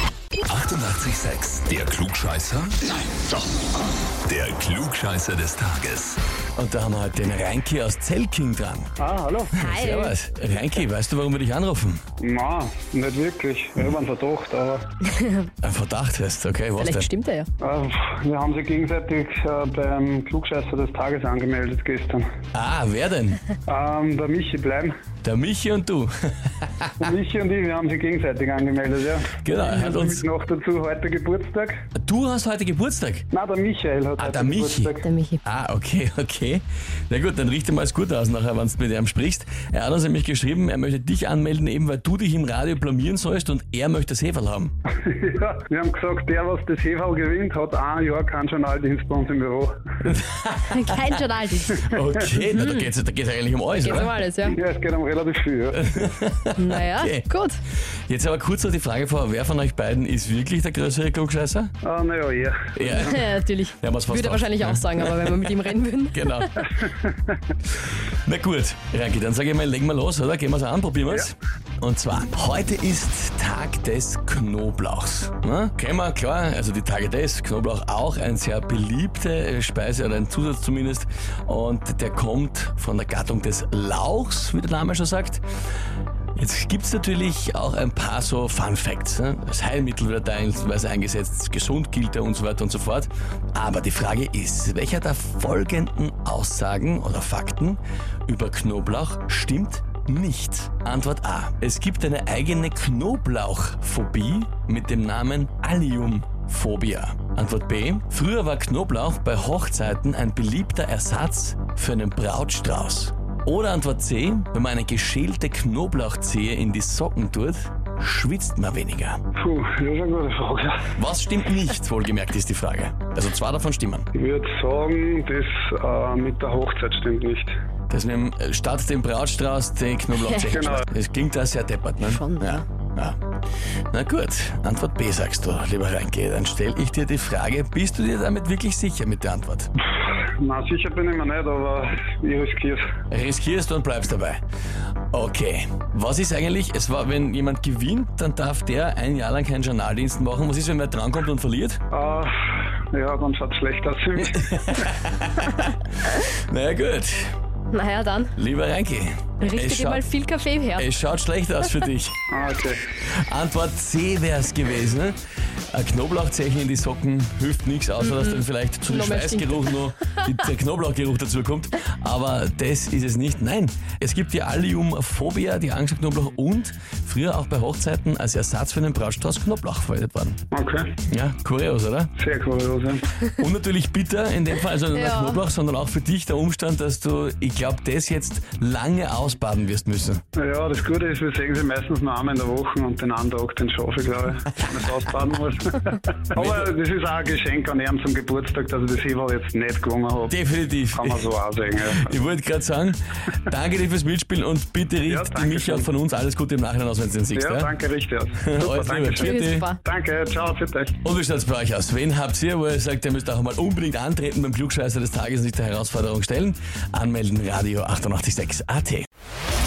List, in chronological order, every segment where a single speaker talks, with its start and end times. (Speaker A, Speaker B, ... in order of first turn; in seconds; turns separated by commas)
Speaker A: 0.4-2.8, Speaker A: 4.2-6.2, Speaker B: 6.6-8.9, Speaker C: 9.0-9.5, Speaker D: 9.6-10.1, Speaker B: 9.6-12.0, Speaker C: 12.2-14.8, Speaker D: 15.1-15.4, Speaker B: 15.6-17.1, Speaker D: 16.8-17.5, Speaker C: 17.6-22.3, Speaker B: 22.5-23.4, Speaker C: 23.7-24.9, Speaker B: 25.2-27.1, Speaker C: 27.0-31.8, Speaker B: 29.4-30.2, Speaker B: 31.9-33.3, Speaker C: 33.3-35.0, Speaker B: 34.2-44.7, Speaker D: 35.0-35.4, Speaker C: 45.0-49.8, Speaker B: 50.0-51.1, Speaker D: 50.7-51.8, Speaker C: 51.7-52.2, Speaker B: 51.8-54.1, Speaker D: 52.5-52.9, Speaker D: 53.8-54.6, Speaker C: 54.4-55.9, Speaker B: 55.7-57.3, Speaker D: 56.6-57.6, Speaker B: 58.1-61.7, Speaker C: 61.8-63.1, Speaker B: 62.8-65.5, Speaker D: 62.9-66.6, Speaker B: 66.1-66.7, Speaker C: 66.8-67.3, Speaker B: 67.9-85.4, Speaker B: 86.3-119.2, Speaker C: 119.3-120.8, Speaker B: 121.0-124.1, Speaker C: 124.1-127.5, Speaker B: 127.9-133.2, Speaker C: 130.5-130.8, Speaker D: 132.0-132.6, Speaker B: 133.9-139.7, Speaker C: 140.0-142.8, Speaker B: 143.1-144.4, Speaker B: 145.1-151.8, Speaker C: 151.9-154.8, Speaker B: 154.2-157.3, Speaker D: 157.7-158.3, Speaker B: 158.3-160.1, Speaker D: 159.4-160.8, Speaker B: 160.7-162.2, Speaker C: 162.3-162.8, Speaker B: 163.1-165.2, Speaker B: 165.7-180.4, Speaker D: 168.0-169.8, Speaker C: 180.5-180.9, Speaker B: 181.1-182.1, Speaker C: 182.2-183.0, Speaker B: 183.3-190.2, Speaker D: 184.9-185.4, Speaker C: 190.3-200.3, Speaker B: 196.3-196.7, Speaker B: 200.3-201.3, Speaker C: 200.9-202.1, Speaker B: 201.9-207.7, Speaker C: 205.1-205.9, Speaker C: 207.3-211.0, Speaker B: 208.4-209.7, Speaker D: 209.1-209.8, Speaker B: 211.0-219.1